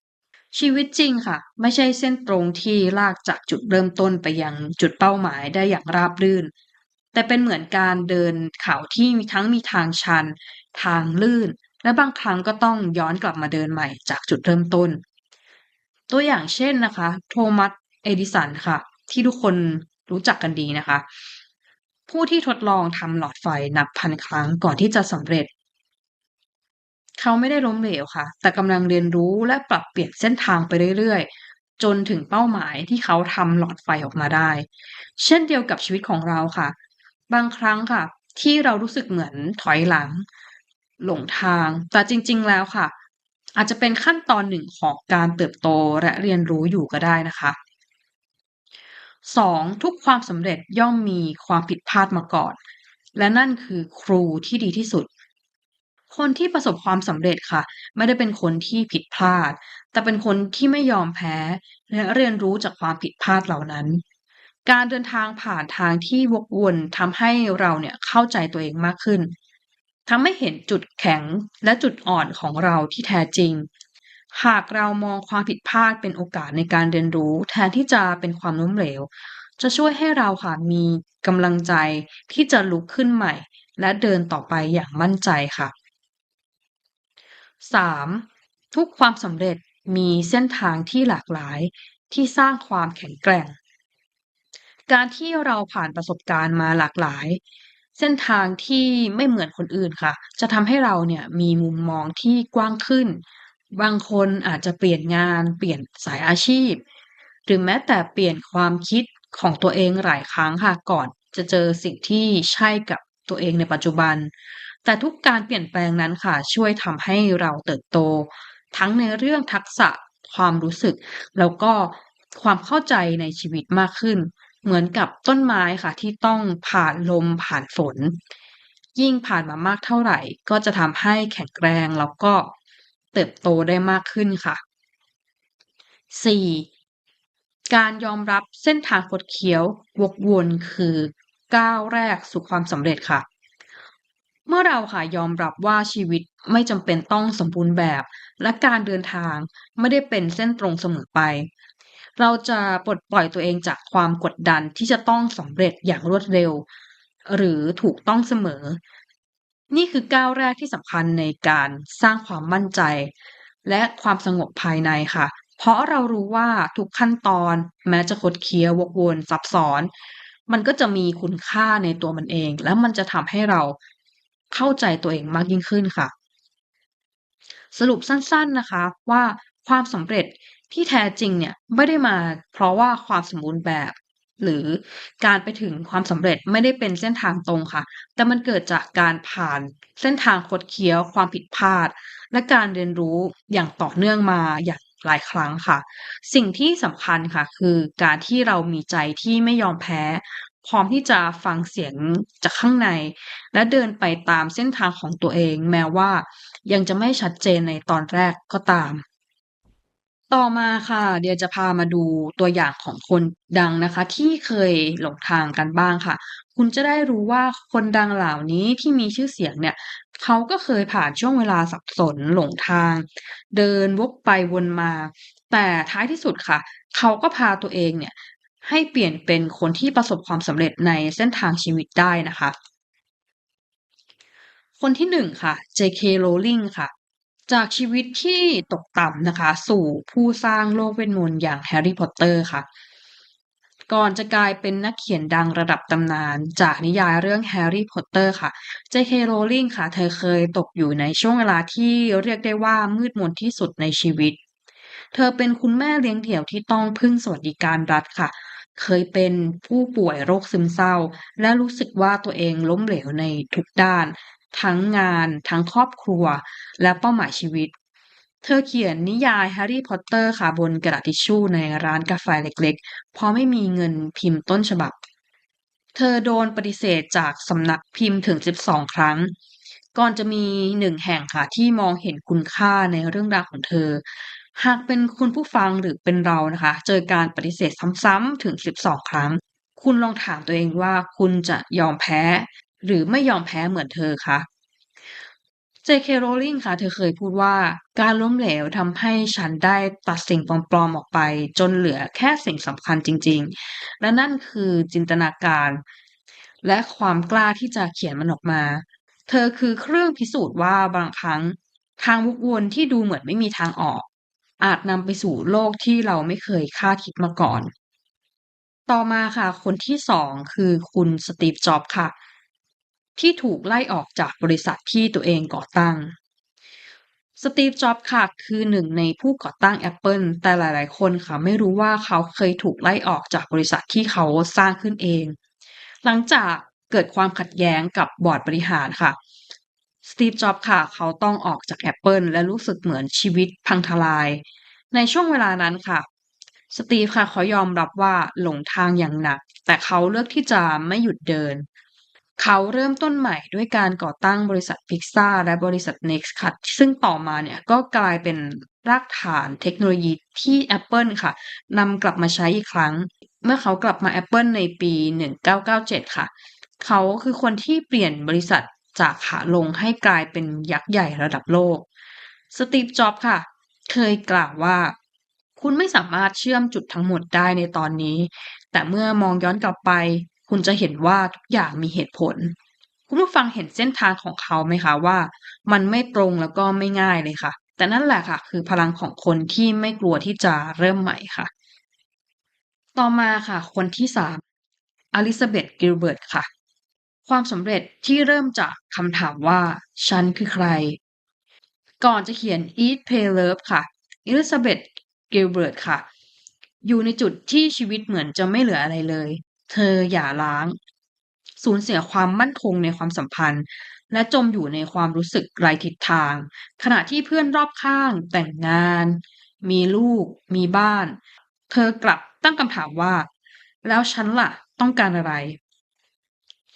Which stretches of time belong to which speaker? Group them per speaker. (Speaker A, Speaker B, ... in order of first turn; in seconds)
Speaker A: 0.5-6.5, 7.1-15.0, 16.1-21.1, 22.1-25.5, 27.2-31.3, 31.8-34.7, 35.2-36.8, 37.3-40.3, 41.0-42.9, 43.6-47.6, 49.3-52.6, 53.2-55.1, 56.1-64.0, 64.7-69.3, 70.1-73.7, 74.3-85.7, 87.6-93.6, 94.9-97.4, 98.0-103.2, 103.7-106.8, 107.5-114.3, 114.8-128.2, 129.0-132.5, 133.1-134.6, 136.1-136.7, 137.7-143.2, 144.5-151.5, 152.2-156.7, 157.3-158.8, 159.7-163.1, 163.7-169.9, 170.5-173.8, 174.5-176.1, 177.7-209.0, 210.3-232.6, 234.8-236.9, 237.5-242.7, 243.9-254.4, 255.1-267.7, 268.4-275.0, 275.9-279.3, 279.9-284.0, 284.6-294.5, 295.9-305.8, 306.6-314.1, 314.6-317.7, 318.9-322.1, 323.2-326.1, 327.4-335.4, 336.0-339.2, 340.0-346.1, 346.7-351.6, 352.4-366.3, 366.8-371.9, 372.5-374.9, 375.6-382.6, 383.1-391.5, 392.9-394.4, 395.1-396.5, 397.3-401.0, 402.0-406.0, 406.8-410.8, 411.6-421.2, 421.7-423.3, 423.8-425.6